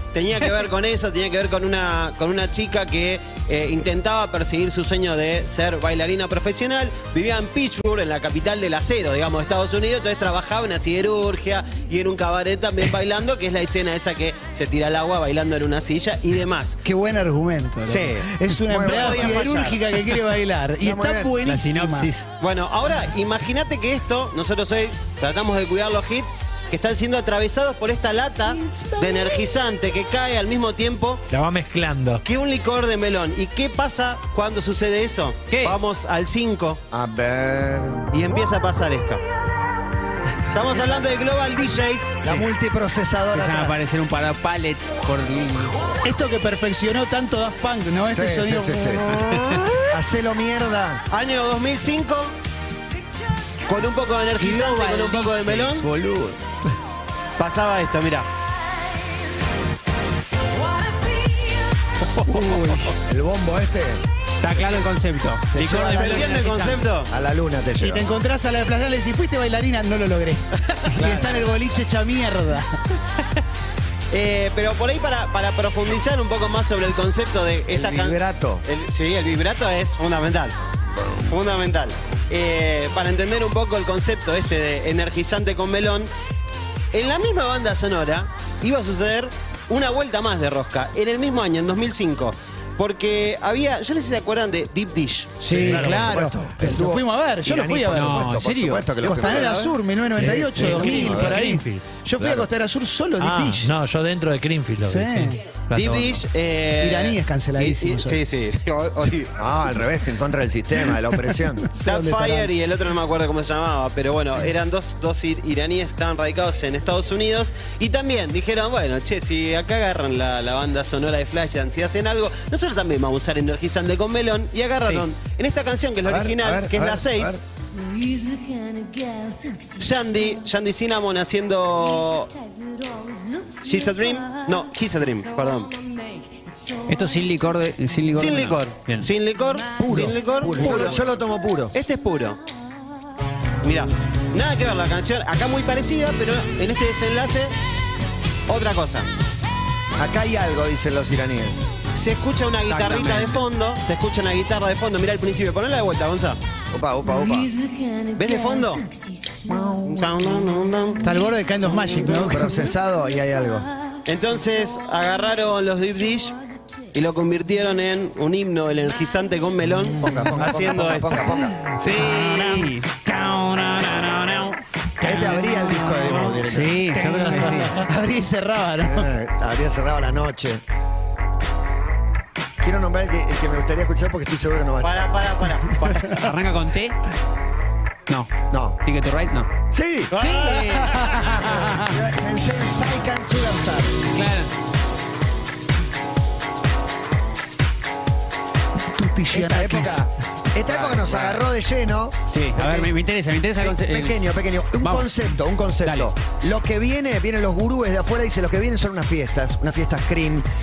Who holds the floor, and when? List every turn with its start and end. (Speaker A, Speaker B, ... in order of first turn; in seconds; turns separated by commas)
Speaker A: 0.1-16.8, Speaker B: 16.8-22.1, Speaker A: 17.9-19.8, Speaker C: 18.7-19.7, Speaker C: 20.8-21.3, Speaker D: 21.4-22.3, Speaker A: 22.4-31.3, Speaker B: 28.7-29.3, Speaker E: 31.3-32.2, Speaker A: 32.2-36.8, Speaker D: 35.5-35.8, Speaker C: 36.9-38.1, Speaker A: 38.1-39.2, Speaker A: 40.5-42.2, Speaker C: 42.2-43.8, Speaker D: 43.3-45.9, Speaker B: 46.0-49.3, Speaker C: 48.1-49.1, Speaker D: 49.1-49.7, Speaker C: 49.9-51.0, Speaker A: 51.1-52.3, Speaker A: 53.7-55.9, Speaker D: 54.4-56.4, Speaker A: 57.4-58.3, Speaker D: 62.3-62.6, Speaker C: 62.6-64.0, Speaker D: 64.4-66.8, Speaker C: 65.5-66.4, Speaker A: 65.8-67.1, Speaker C: 67.1-68.1, Speaker B: 67.8-72.8, Speaker A: 71.0-71.3, Speaker A: 74.1-80.5, Speaker C: 77.7-78.6, Speaker A: 81.2-86.1, Speaker A: 86.9-95.4, Speaker B: 95.4-98.3, Speaker C: 95.5-101.5, Speaker E: 95.5-96.1, Speaker D: 97.9-98.9, Speaker B: 99.0-103.8, Speaker E: 100.2-102.0, Speaker E: 103.2-105.3, Speaker B: 104.8-105.4, Speaker D: 105.7-106.2, Speaker A: 105.7-109.3, Speaker B: 106.8-108.2, Speaker C: 109.4-111.7, Speaker B: 111.7-112.5, Speaker A: 111.8-127.4, Speaker C: 126.0-127.4, Speaker A: 129.8-132.3, Speaker A: 133.6-135.7, Speaker D: 136.9-139.1, Speaker A: 138.1-141.0, Speaker C: 139.8-141.8, Speaker A: 141.7-142.4, Speaker A: 143.6-147.6, Speaker A: 148.5-149.1, Speaker C: 150.0-151.6, Speaker A: 151.9-156.4, Speaker D: 152.7-153.3, Speaker C: 156.7-157.5, Speaker A: 158.2-158.9, Speaker A: 159.8-161.1, Speaker B: 161.0-162.6, Speaker C: 162.1-163.7, Speaker A: 164.1-166.4, Speaker A: 166.9-171.3, Speaker C: 170.0-171.6, Speaker D: 171.8-172.9, Speaker B: 171.8-179.1, Speaker C: 175.0-176.8, Speaker D: 176.5-177.8, Speaker E: 177.1-177.8, Speaker C: 178.8-180.6, Speaker C: 182.6-185.1, Speaker A: 184.8-186.3, Speaker D: 186.1-187.0, Speaker C: 188.5-188.8, Speaker D: 188.8-189.5, Speaker C: 189.7-190.1, Speaker A: 190.1-190.6, Speaker D: 190.2-191.0, Speaker B: 191.0-191.9, Speaker C: 191.8-193.9, Speaker D: 194.1-194.5, Speaker B: 199.0-200.1, Speaker C: 199.3-202.9, Speaker D: 202.3-204.2, Speaker C: 203.6-210.4, Speaker D: 204.8-205.1, Speaker D: 205.8-206.1